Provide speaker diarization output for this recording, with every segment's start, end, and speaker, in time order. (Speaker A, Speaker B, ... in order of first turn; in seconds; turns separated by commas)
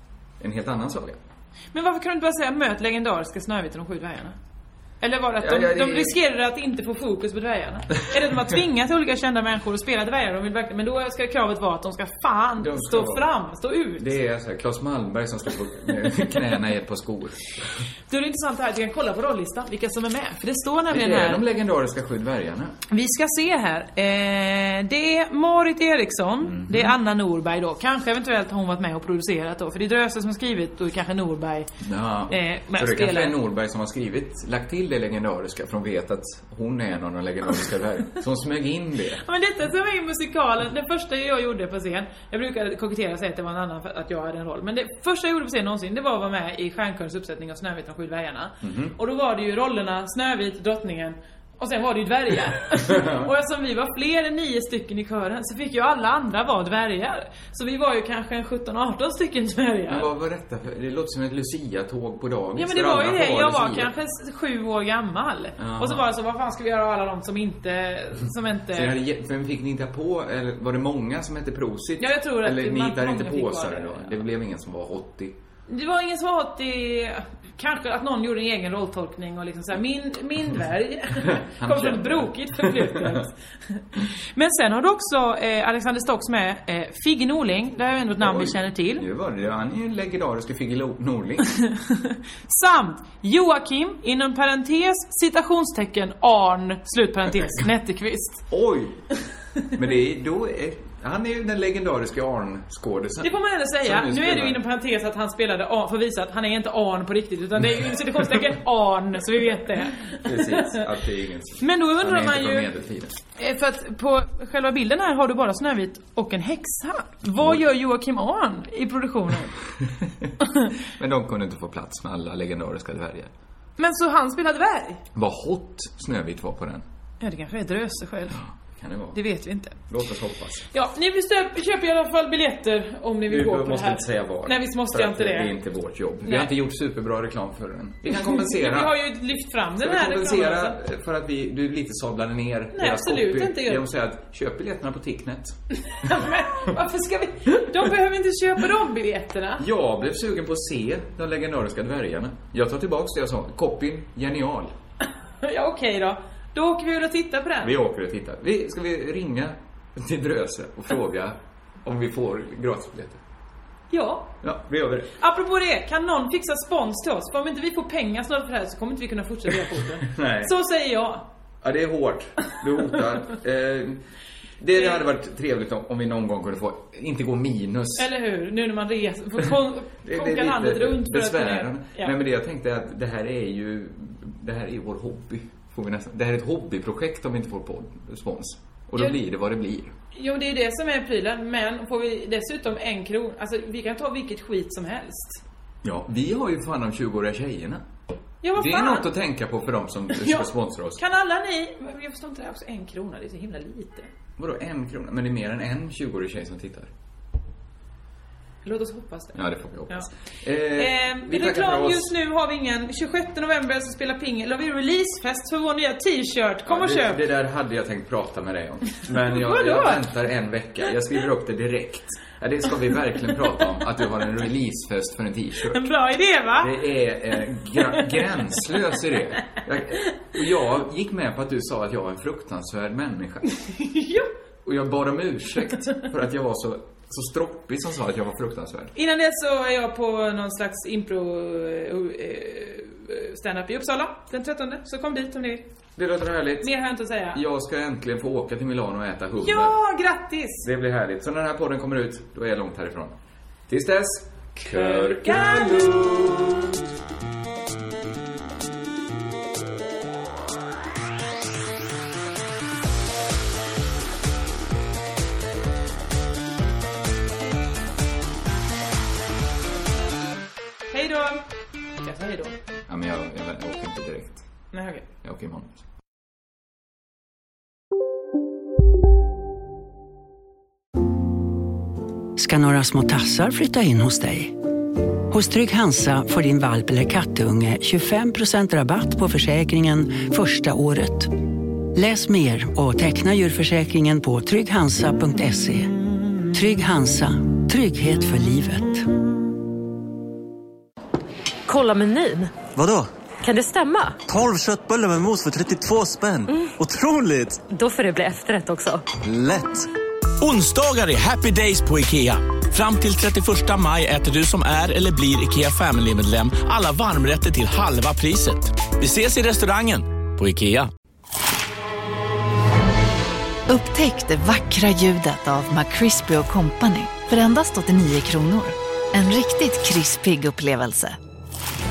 Speaker A: 0.4-1.2, Speaker B: 1.7-4.4, Speaker B: 5.0-14.1, Speaker A: 5.4-6.2, Speaker A: 12.6-13.3, Speaker A: 14.0-17.4, Speaker B: 18.1-21.4, Speaker A: 20.9-22.8, Speaker B: 22.9-31.7, Speaker A: 26.4-26.9, Speaker A: 31.8-39.2, Speaker B: 32.3-33.4, Speaker B: 39.2-60.1, Speaker A: 48.6-49.0, Speaker A: 52.7-53.3, Speaker A: 59.9-63.9, Speaker B: 62.5-69.0, Speaker A: 65.6-66.0, Speaker A: 68.7-75.4, Speaker B: 72.0-74.2, Speaker B: 75.7-89.0, Speaker A: 81.1-83.2, Speaker A: 88.2-91.5, Speaker B: 91.4-98.4, Speaker A: 98.5-99.0, Speaker A: 99.7-104.6, Speaker B: 103.2-110.9, Speaker A: 110.2-113.2, Speaker B: 111.6-112.7, Speaker B: 113.4-119.5, Speaker A: 119.9-120.3, Speaker A: 121.0-123.3, Speaker B: 123.8-125.0, Speaker A: 125.1-126.8, Speaker B: 127.2-128.4, Speaker A: 128.3-129.2, Speaker B: 129.1-129.8, Speaker A: 129.9-130.7, Speaker B: 130.7-135.6, Speaker A: 133.3-138.9, Speaker B: 136.2-136.5, Speaker B: 138.1-140.8, Speaker A: 139.8-146.7, Speaker B: 142.7-143.8, Speaker B: 145.8-149.6, Speaker A: 149.6-154.7, Speaker B: 155.4-157.8, Speaker A: 157.6-163.2, Speaker B: 163.9-164.3, Speaker A: 164.4-165.1, Speaker B: 165.2-171.3, Speaker A: 170.0-170.5, Speaker A: 171.6-174.0, Speaker A: 174.6-178.1, Speaker B: 178.0-182.1, Speaker A: 180.0-189.9, Speaker B: 190.1-195.4, Speaker A: 195.8-197.8, Speaker B: 198.4-199.1, Speaker A: 198.6-201.0, Speaker B: 200.1-204.1, Speaker A: 204.4-206.9, Speaker B: 208.6-210.1, Speaker A: 209.3-212.1, Speaker B: 210.7-217.2, Speaker A: 216.7-225.8, Speaker B: 219.0-220.1, Speaker B: 225.7-227.1, Speaker A: 226.6-233.5, Speaker B: 227.7-228.4, Speaker B: 233.6-234.3, Speaker A: 234.6-238.9, Speaker B: 238.9-245.6, Speaker A: 245.9-246.7, Speaker B: 246.6-247.4, Speaker A: 247.3-249.7, Speaker B: 249.4-250.7, Speaker A: 250.6-253.1, Speaker A: 253.7-256.8, Speaker B: 254.6-256.3, Speaker B: 270.9-271.4, Speaker B: 272.0-272.6, Speaker A: 272.9-274.4, Speaker B: 274.7-275.1, Speaker A: 275.2-275.8, Speaker C: 282.4-284.6, Speaker C: 285.3-295.9, Speaker C: 296.5-299.1, Speaker D: 301.7-302.6, Speaker E: 302.8-303.1, Speaker D: 303.4-304.2, Speaker E: 304.3-307.5, Speaker D: 306.5-306.7, Speaker D: 307.7-309.0, Speaker F: 310.4-320.9, Speaker G: 323.7-331.2